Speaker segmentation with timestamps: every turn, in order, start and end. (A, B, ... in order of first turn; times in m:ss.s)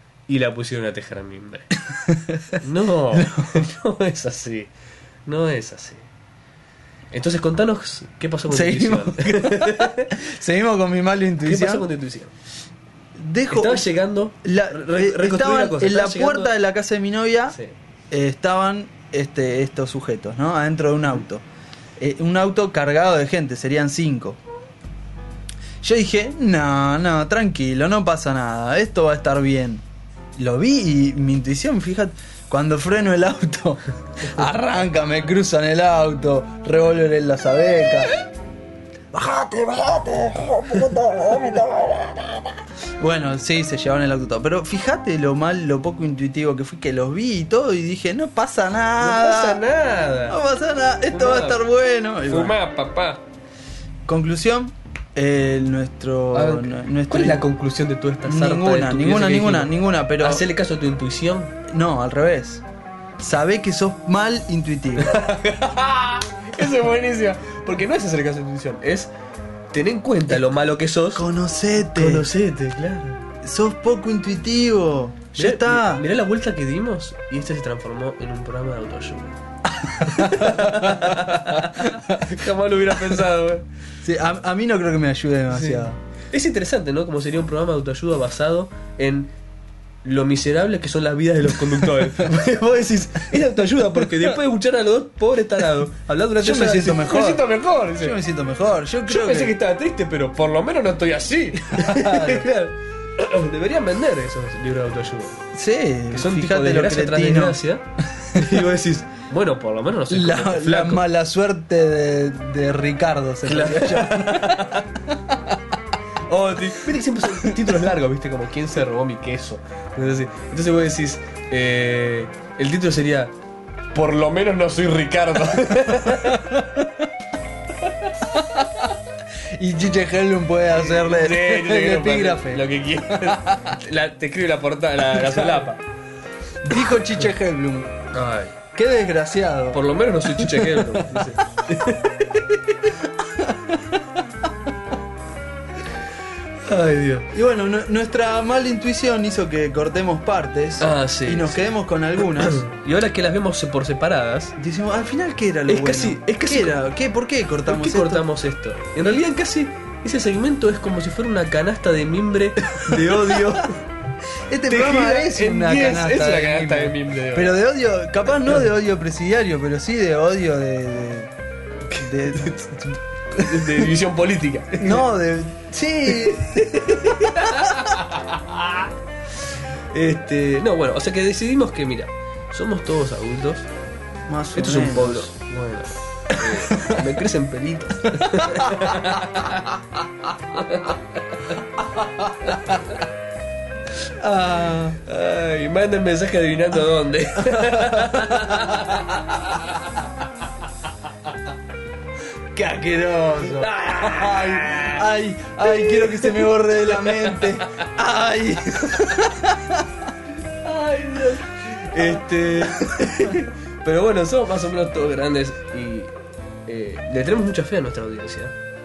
0:00.3-0:01.7 A
0:01.9-0:02.6 B
0:02.6-0:04.7 A
0:03.1-0:03.6 B
0:05.3-0:06.1 A
0:07.1-0:10.2 A
0:08.5-0:11.9 B
0:11.4-0:12.3 A
0:13.2-0:13.9 B
0:13.5-0:16.5 A
0:14.4-0:17.6 B
0:18.1-0:21.4 B
0:22.0-0:24.4 B
0:25.8-0:29.8 B
0:30.4-0:38.1 B
0:39.1-0:42.5 B
0:43.0-0:49.6 B
0:49.0-0:50.4 A
0:50.3-0:52.6 B
0:51.1-0:51.6 A
0:52.3-0:53.2 A
0:54.1-0:57.4 B
0:56.3-1:01.5 A
0:58.2-1:00.4 B
1:01.7-1:02.6 B
1:03.2-1:05.2 B
1:05.0-1:09.1 A
1:09.7-1:11.3 A
1:11.1-1:12.3 B
1:11.9-1:13.2 A
1:13.4-1:16.0 B
1:15.4-1:19.4 A
1:19.7-1:22.2 B
1:20.0-1:23.6 A
1:24.0-1:26.0 B
1:25.5-1:29.3 A
1:30.0-1:38.2 A
1:36.4-1:39.6 B
1:39.1-1:45.4 A
1:41.7-1:42.4 B
1:45.5-1:47.6 B
1:46.1-1:51.0 A
1:48.2-1:48.5 B
1:50.1-1:55.4 B
1:53.4-1:54.8 A
1:56.3-2:03.3 A
1:57.3-1:57.7 B
2:03.9-2:06.5 A
2:06.0-2:06.9 B
2:07.8-2:08.1 A
2:08.3-2:08.9 B
2:09.5-2:13.7 B
2:10.7-2:15.8 A
2:15.2-2:15.7 B
2:16.6-2:17.9 B
2:18.1-2:18.6 A
2:18.7-2:19.8 B
2:19.7-2:22.2 A
2:20.4-2:21.3 B
2:23.0-2:24.0 B
2:26.6-2:27.3 A
2:27.3-2:32.6 B
2:30.8-2:31.7 A
2:32.3-2:34.6 A
2:34.6-2:38.3 B
2:35.7-2:36.8 A
2:37.7-2:43.8 A
2:42.7-2:43.7 B
2:44.5-2:51.3 B
2:44.7-2:47.6 A
2:51.9-2:52.6 A
2:51.9-2:53.9 B
2:53.3-2:55.0 A
2:54.8-2:57.9 B
2:56.2-2:58.9 A
2:59.9-3:03.7 A
3:04.3-3:05.3 B
3:04.6-3:09.8 A
3:06.4-3:07.1 B
3:08.2-3:09.0 B
3:10.5-3:11.0 A
3:14.2-3:15.0 B
3:15.0-3:19.8 A
3:17.4-3:19.0 B
3:22.6-3:29.9 B
3:23.4-3:25.0 A
3:25.6-3:27.6 A
3:30.6-3:36.1 A
3:32.6-3:33.4 B
3:36.7-3:38.5 A